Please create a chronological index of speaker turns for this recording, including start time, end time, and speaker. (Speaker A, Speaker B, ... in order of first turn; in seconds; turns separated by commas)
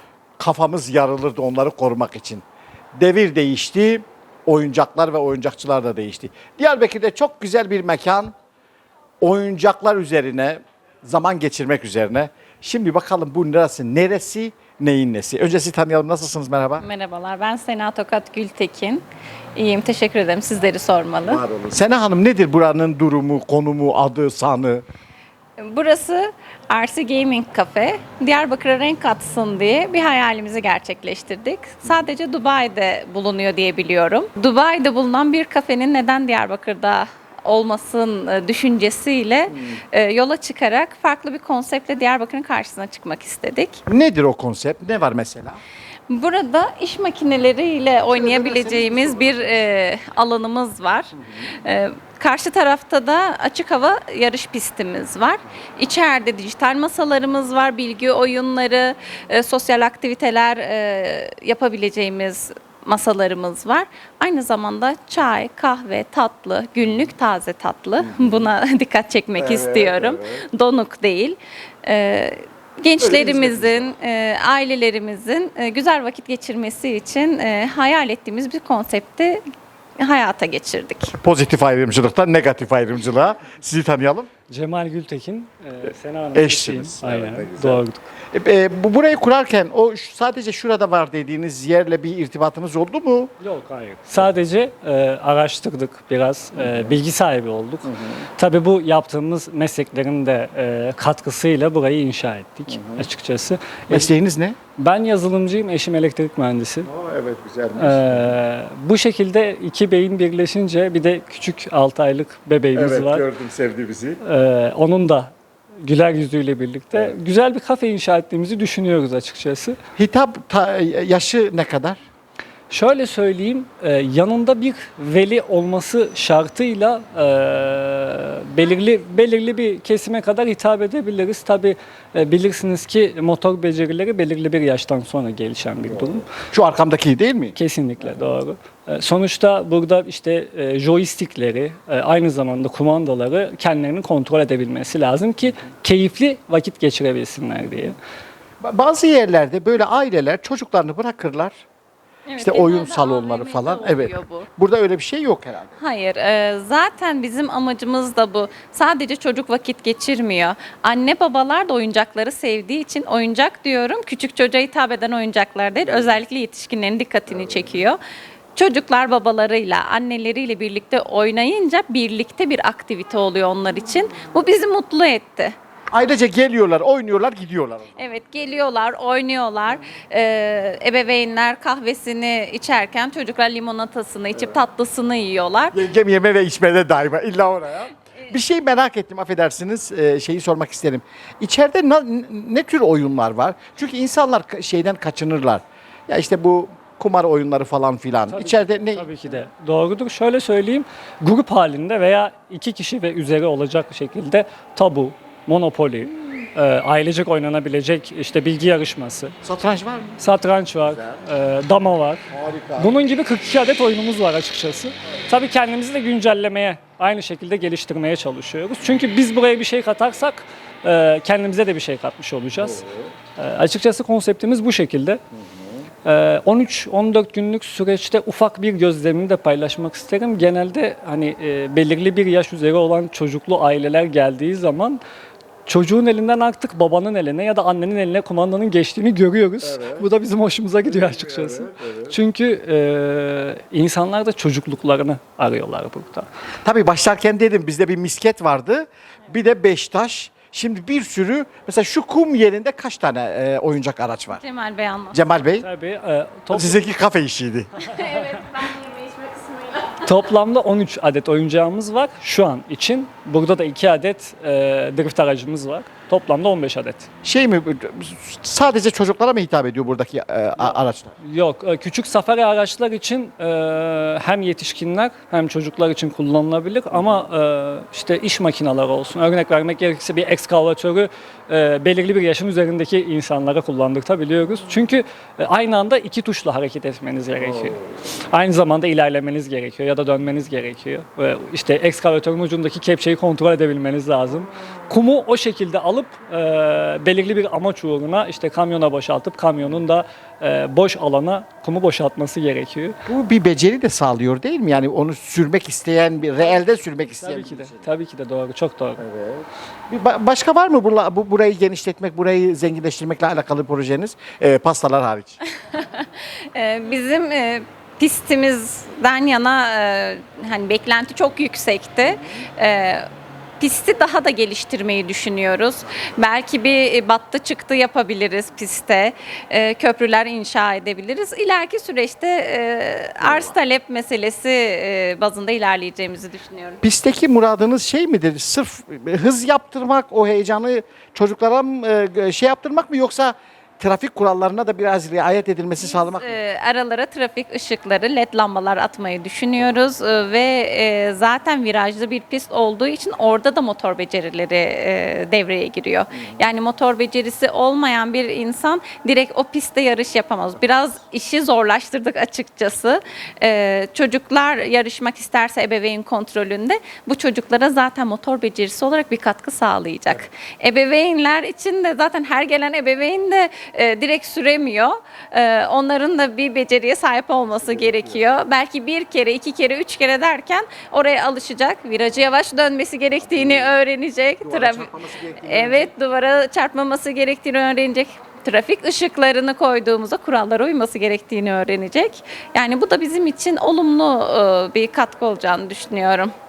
Speaker A: 0.4-2.4, Speaker A: 3.0-8.3, Speaker A: 9.2-16.8, Speaker B: 16.8-19.0, Speaker B: 19.6-21.4, Speaker A: 21.2-24.8, Speaker B: 25.6-43.8, Speaker A: 39.5-39.8, Speaker A: 43.9-45.6, Speaker B: 46.1-79.4, Speaker A: 48.1-49.5, Speaker A: 68.0-68.4, Speaker A: 69.3-70.4, Speaker A: 73.0-73.9, Speaker B: 80.0-81.2, Speaker A: 81.2-84.3, Speaker C: 84.5-88.1, Speaker A: 86.3-93.3, Speaker C: 93.4-104.1, Speaker A: 96.6-96.9, Speaker A: 97.8-98.2, Speaker A: 102.7-103.0, Speaker A: 103.9-104.6, Speaker C: 104.8-106.9, Speaker A: 106.9-108.3, Speaker C: 107.8-113.2, Speaker A: 112.7-114.2, Speaker C: 114.2-119.8, Speaker A: 120.0-122.0, Speaker C: 122.7-136.2, Speaker A: 136.4-137.6, Speaker C: 137.5-148.0, Speaker A: 148.6-151.6, Speaker B: 152.3-154.5, Speaker A: 152.4-155.7, Speaker B: 155.8-168.0, Speaker A: 167.4-167.7, Speaker B: 168.6-175.5, Speaker A: 175.9-177.9, Speaker B: 178.0-185.8, Speaker A: 185.7-199.1, Speaker C: 198.3-209.3, Speaker A: 209.4-210.2, Speaker C: 210.2-222.8, Speaker A: 212.3-212.9, Speaker A: 222.6-223.1, Speaker C: 223.3-225.2, Speaker A: 225.5-225.8, Speaker C: 226.0-235.0, Speaker C: 235.7-246.3, Speaker A: 239.6-240.0, Speaker A: 240.9-242.1, Speaker A: 246.6-254.4, Speaker B: 254.3-255.2, Speaker A: 255.1-255.7, Speaker C: 255.6-256.8, Speaker A: 256.5-257.7, Speaker B: 257.8-260.0, Speaker C: 260.0-267.1, Speaker A: 267.2-271.1, Speaker C: 271.2-302.9, Speaker A: 276.9-277.2, Speaker A: 303.1-307.8, Speaker C: 307.2-309.0, Speaker A: 309.0-315.4, Speaker B: 315.6-323.0, Speaker A: 322.0-322.4, Speaker B: 323.6-336.8, Speaker A: 333.2-333.5, Speaker A: 336.8-346.4, Speaker B: 345.8-396.3, Speaker A: 356.1-356.4, Speaker A: 377.6-378.2, Speaker A: 383.3-383.7, Speaker A: 384.4-385.9